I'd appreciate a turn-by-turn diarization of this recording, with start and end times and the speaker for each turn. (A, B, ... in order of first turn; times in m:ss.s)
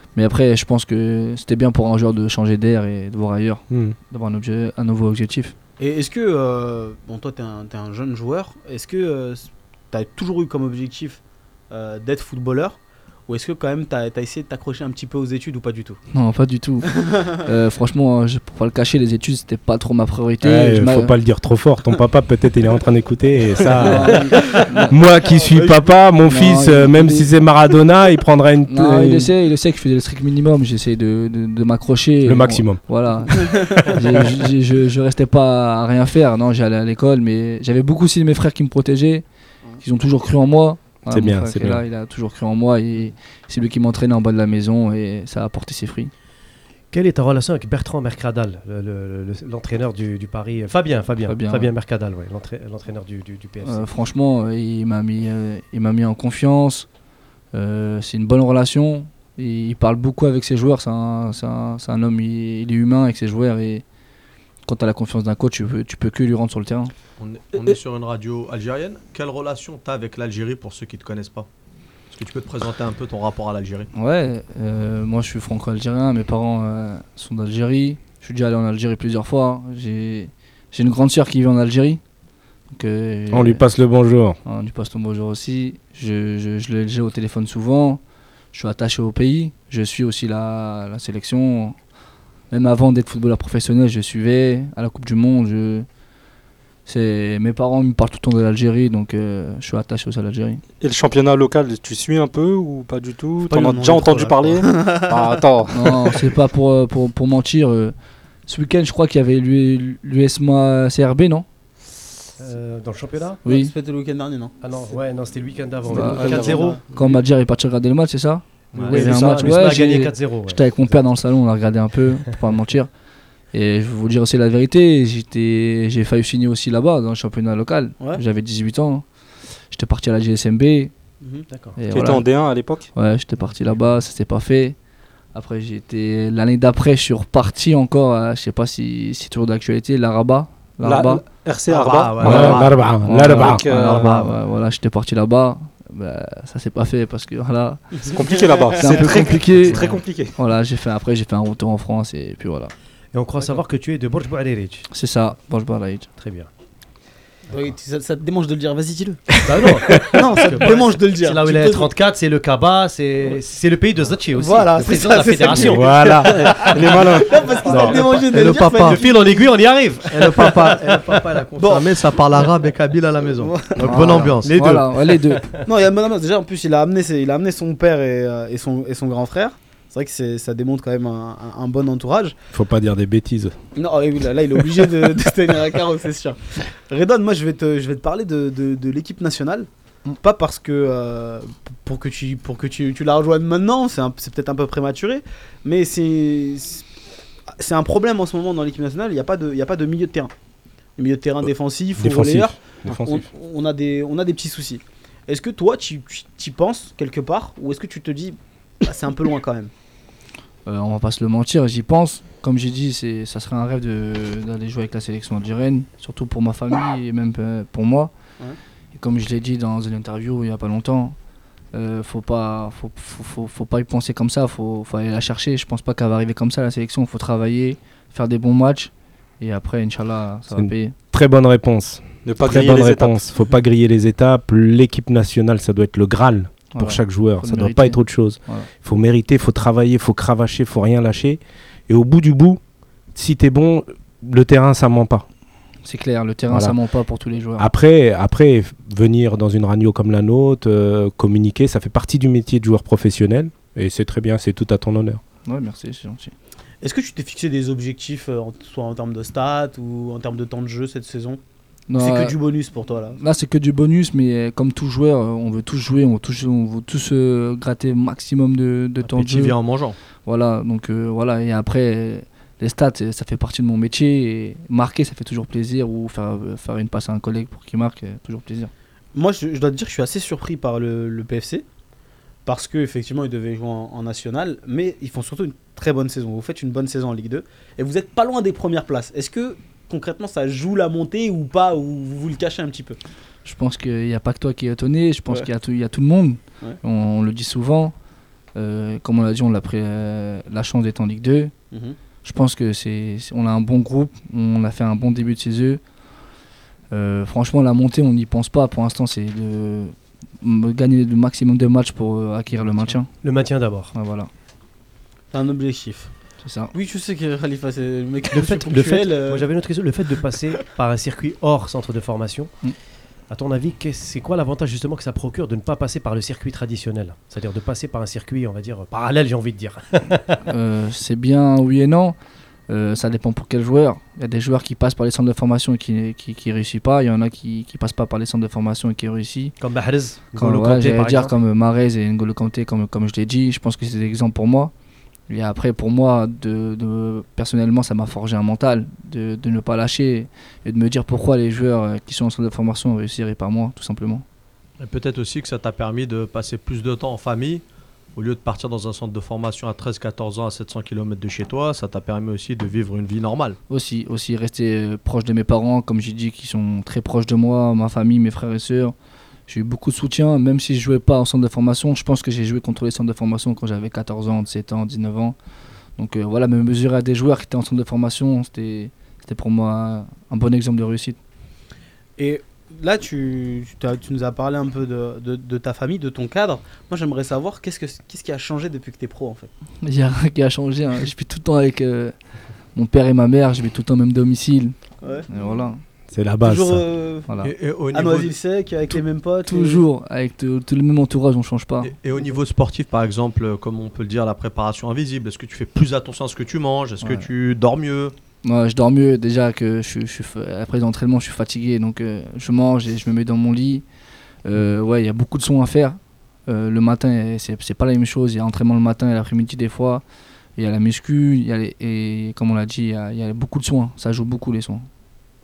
0:00.2-0:05.5 A
0:03.7-0:03.9 B
0:05.8-0:12.8 C
0:13.3-0:16.0 C
0:16.1-0:21.1 A
0:16.9-0:17.3 C
0:20.4-0:29.3 B
0:23.8-0:24.9 A
0:25.4-0:25.8 C
0:26.2-0:27.3 A
0:28.6-0:39.2 A
0:32.2-0:32.8 B
0:33.5-0:34.0 C
0:39.8-0:46.1 A
0:41.1-0:41.8 B
0:46.9-0:53.8 D
0:51.2-0:51.7 A
0:53.6-0:56.9 A
0:57.5-1:03.8 A
1:04.6-1:06.9 A
1:07.2-1:11.5 E
1:12.1-1:13.9 E
1:13.9-1:22.0 A
1:22.7-1:23.6 A
1:23.3-1:24.4 B
1:24.4-1:28.0 A
1:28.5-1:31.8 A
1:32.5-1:35.8 A
1:36.8-1:40.6 A
1:40.8-1:46.2 F
1:43.4-1:45.2 C
1:45.7-1:47.9 A
1:48.5-1:51.4 A
1:52.4-1:53.4 D
1:53.4-1:53.7 A
1:53.4-1:54.5 C
1:54.6-1:56.8 D
1:55.9-2:02.9 A
1:55.9-1:56.6 F
1:56.2-1:56.8 C
1:58.7-1:59.2 E
1:58.8-2:01.0 D
2:03.5-2:09.0 A
2:09.7-2:10.9 A
2:11.5-2:11.8 D
2:11.8-2:12.2 A
2:11.9-2:12.9 F
2:12.9-2:14.8 A
2:15.3-2:21.2 A
2:20.8-2:24.3 F
2:21.7-2:22.9 E
2:22.2-2:23.6 B
2:23.0-2:27.9 A
2:23.7-2:24.3 E
2:27.9-2:28.8 C
2:28.1-2:30.3 F
2:28.8-2:32.7 A
2:33.1-2:34.9 D
2:34.9-2:36.1 A
2:36.2-2:36.5 D
2:37.5-2:39.4 C
2:39.4-2:51.2 D
2:39.8-2:40.2 B
2:39.9-2:41.9 C
2:44.3-2:49.5 C
2:45.5-2:46.7 B
2:46.4-2:47.4 F
2:47.7-2:49.0 E
2:50.1-2:54.8 E
2:51.6-2:51.9 C
2:53.4-2:53.8 C
2:53.8-2:55.6 D
2:53.8-2:55.5 A
2:55.6-3:02.3 C
3:02.5-3:03.5 B
3:03.8-3:09.7 C
3:10.2-3:16.8 C
3:17.6-3:20.3 C
3:21.0-3:29.7 C
3:22.0-3:23.2 B
3:30.6-3:38.1 A
3:38.9-3:41.2 A
3:41.7-3:50.9 A
3:50.5-4:02.6 B
3:52.2-3:53.3 F
3:56.7-3:58.7 A
4:03.1-4:05.2 B
4:05.8-4:07.7 A
4:06.5-4:06.7 B
4:07.6-4:15.2 B
4:15.4-4:16.3 A
4:16.8-4:21.4 C
4:21.9-4:22.3 A
4:22.0-4:23.2 C
4:23.2-4:29.6 A
4:29.0-4:30.0 E
4:30.2-4:38.7 A
4:39.1-4:41.6 C
4:42.4-4:53.0 C
4:53.4-4:57.9 A
4:58.5-5:01.5 A
5:02.2-5:05.8 A
5:06.9-5:13.1 A
5:12.6-5:13.9 D
5:13.9-5:14.3 A
5:15.3-5:16.1 C
5:16.4-5:16.7 A
5:16.7-5:19.5 C
5:18.3-5:22.5 D
5:23.3-5:30.4 D
5:30.5-5:32.2 A
5:32.7-5:39.5 A
5:39.6-5:41.3 D
5:40.4-5:44.7 A
5:45.3-5:54.2 A
5:54.8-5:57.6 E
5:58.2-6:03.6 E
6:03.7-6:08.9 A
6:09.5-6:15.3 A
6:16.0-6:21.2 A
6:22.2-6:29.5 C
6:29.8-6:32.1 A
6:32.7-6:34.7 A
6:35.0-6:35.3 C
6:35.3-6:35.8 A
6:36.1-6:36.8 B
6:36.4-6:37.3 C
6:37.4-6:38.3 E
6:37.9-6:39.8 C
6:39.4-6:41.9 A
6:41.8-6:48.1 E
6:47.0-6:47.3 A
6:48.4-6:53.8 A
6:54.4-7:00.0 A
7:00.6-7:04.9 A